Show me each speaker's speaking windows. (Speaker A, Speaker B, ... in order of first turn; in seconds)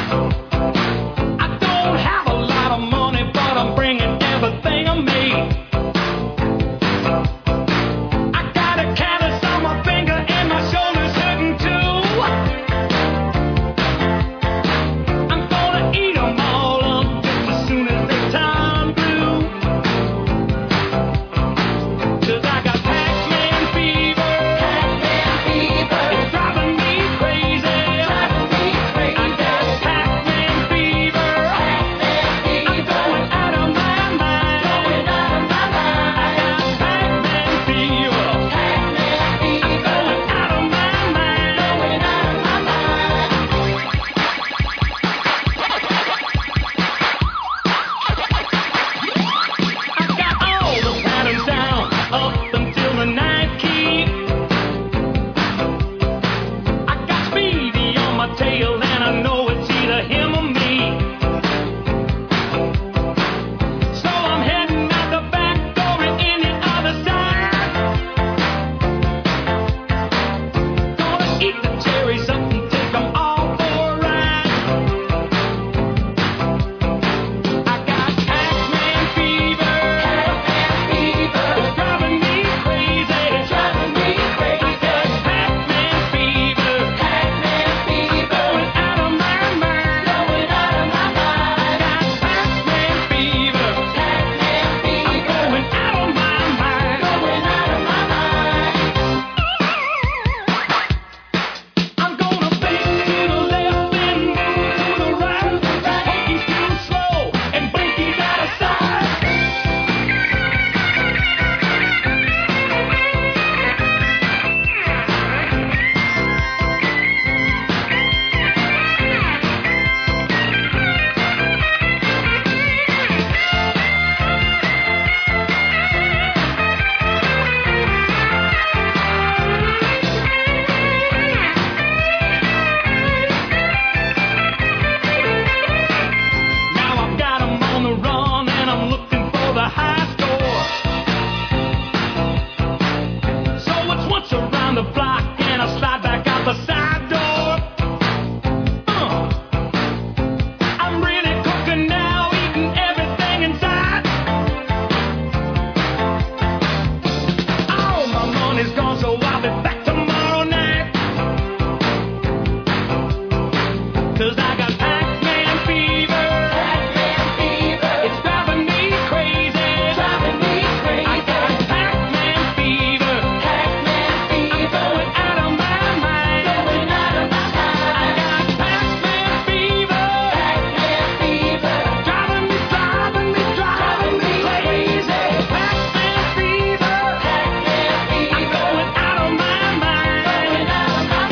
Speaker A: 1.4-5.6, 8.3-12.4, 15.3-19.6, 22.2-25.1, 25.7-38.8, 39.4-42.3, 50.0-54.3, 56.9-61.1, 63.9-67.8, 70.9-74.7, 77.6-97.5, 102.0-109.3, 136.7-140.8, 143.6-147.8, 148.9-149.4, 150.8-154.1, 157.7-161.0, 164.1-166.9, 167.9-180.8, 181.6-191.1